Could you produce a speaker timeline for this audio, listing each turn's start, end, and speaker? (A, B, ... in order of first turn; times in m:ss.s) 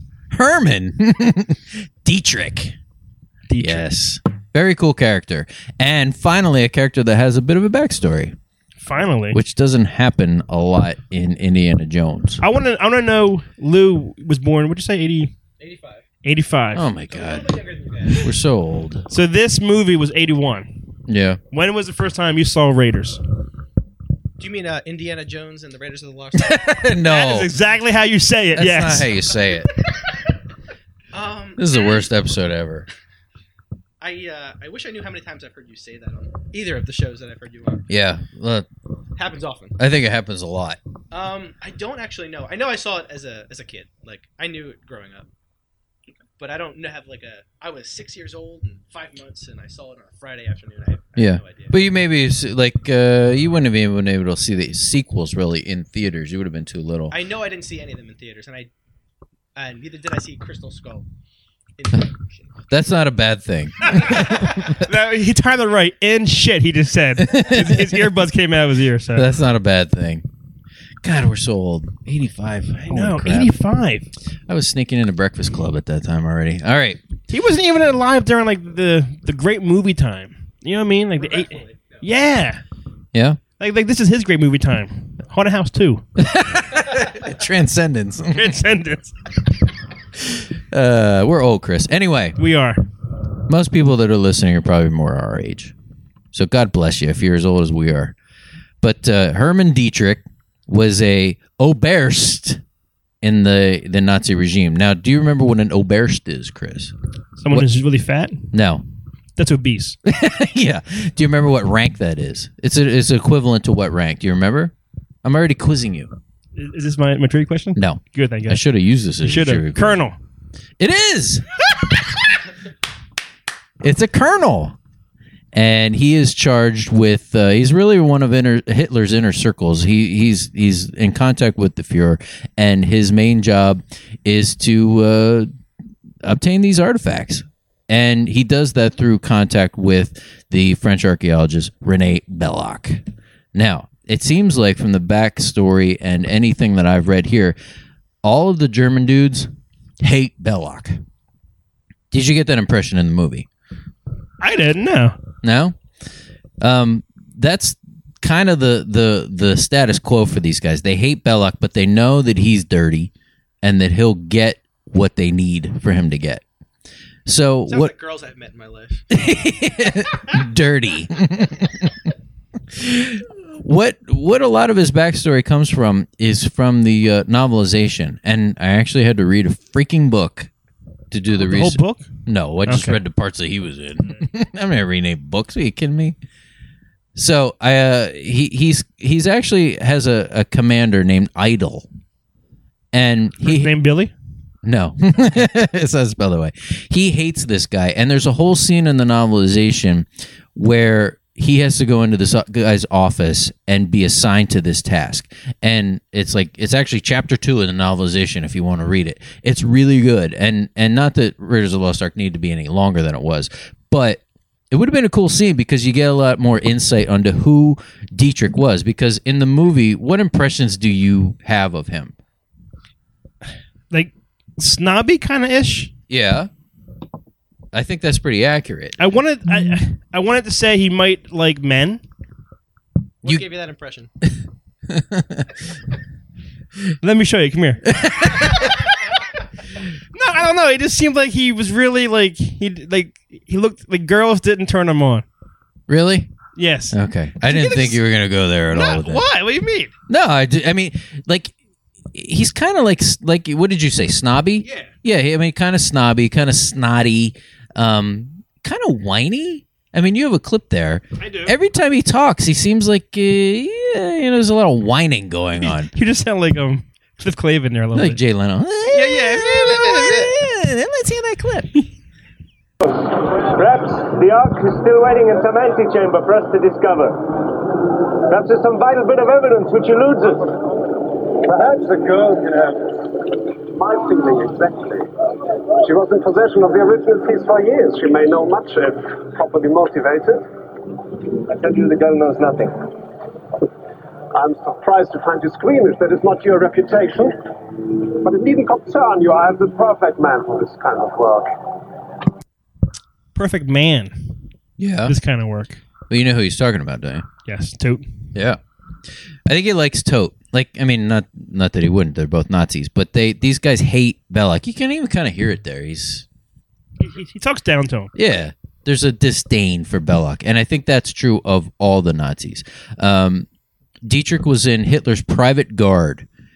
0:00.3-0:02.8 A
0:03.5-0:03.9 B
0:03.6-0:08.4 A
0:08.8-0:09.4 B
0:09.3-0:12.4 A
0:12.4-0:15.3 B
0:15.6-0:16.0 C
0:16.2-0:16.8 B
0:16.7-0:17.6 A
0:17.1-0:18.3 C
0:18.1-0:19.1 A
0:19.1-0:20.8 B
0:21.1-0:21.4 A
0:21.5-0:23.2 B
0:24.4-0:26.8 C
0:26.4-0:27.5 A
0:27.1-0:29.1 B
0:28.5-0:29.7 A
0:31.1-0:31.9 C
0:31.6-0:32.9 A
0:34.0-0:37.9 C
0:37.9-0:38.7 A
0:39.2-0:39.8 C
0:39.8-0:40.8 A
0:41.1-0:45.3 C
0:46.4-0:51.8 C
0:51.2-0:57.2 A
0:57.1-0:58.7 C
0:59.6-1:01.1 C
1:01.8-1:02.5 C
1:02.7-1:04.8 A
1:04.0-1:09.3 B
1:07.2-1:08.2 A
1:09.2-1:10.2 A
1:11.0-1:13.5 A
1:12.8-1:14.1 B
1:14.5-1:17.0 A
1:17.3-1:22.6 B
1:21.2-1:22.0 C
1:23.1-1:23.4 A
1:23.6-1:26.0 B
1:26.2-1:28.5 A
1:28.3-1:29.2 B
1:30.2-1:32.4 A
1:32.4-1:32.8 B
1:33.5-1:35.7 A
1:36.3-1:38.2 A
1:38.8-1:42.6 A
1:43.2-1:46.9 A
1:47.4-1:48.5 B
1:48.5-1:48.8 A
1:49.4-1:50.0 B
1:50.0-1:56.1 A
1:56.6-1:58.6 B
1:57.8-2:00.0 A
1:59.2-2:00.2 B
2:00.8-2:02.4 A
2:03.8-2:04.8 A
2:05.5-2:15.5 A
2:16.2-2:27.6 A
2:28.2-2:31.0 A
2:32.1-2:33.5 A
2:34.4-2:35.2 B
2:35.4-2:35.8 A
2:36.6-2:43.1 A
2:43.6-2:46.4 A
2:47.3-2:47.9 A
2:47.7-2:49.2 C
2:49.1-2:52.1 A
2:52.7-3:00.5 A
3:01.1-3:06.2 A
3:01.4-3:02.1 B
3:02.7-3:03.0 B
3:07.2-3:11.9 A
3:12.9-3:13.8 A
3:13.4-3:14.1 B
3:14.6-3:42.1 A
3:43.9-3:45.9 B
3:46.1-3:46.5 A
3:47.7-3:49.0 A
3:49.0-3:52.0 B
3:53.2-3:54.1 C
3:54.9-3:55.6 A
3:57.0-3:57.9 B
3:57.9-3:58.7 A
4:00.1-4:05.2 B
4:05.9-4:06.3 A
4:06.6-4:08.0 B
4:06.9-4:09.2 A
4:08.7-4:09.9 B
4:10.1-4:11.5 A
4:12.1-4:25.9 A
4:14.6-4:14.9 B
4:21.2-4:21.6 B
4:25.6-4:28.2 B
4:27.9-4:31.8 A
4:28.9-4:30.3 B
4:32.8-4:50.5 D
4:51.3-4:52.9 D
4:54.3-5:01.8 D
5:03.4-5:04.4 B
5:04.8-5:05.2 A
5:05.1-5:05.8 B
5:06.1-5:07.3 A
5:07.5-5:08.1 B
5:08.4-5:08.6 A
5:09.5-5:16.3 A
5:17.0-5:18.1 B
5:18.2-5:23.5 A
5:24.0-5:26.3 A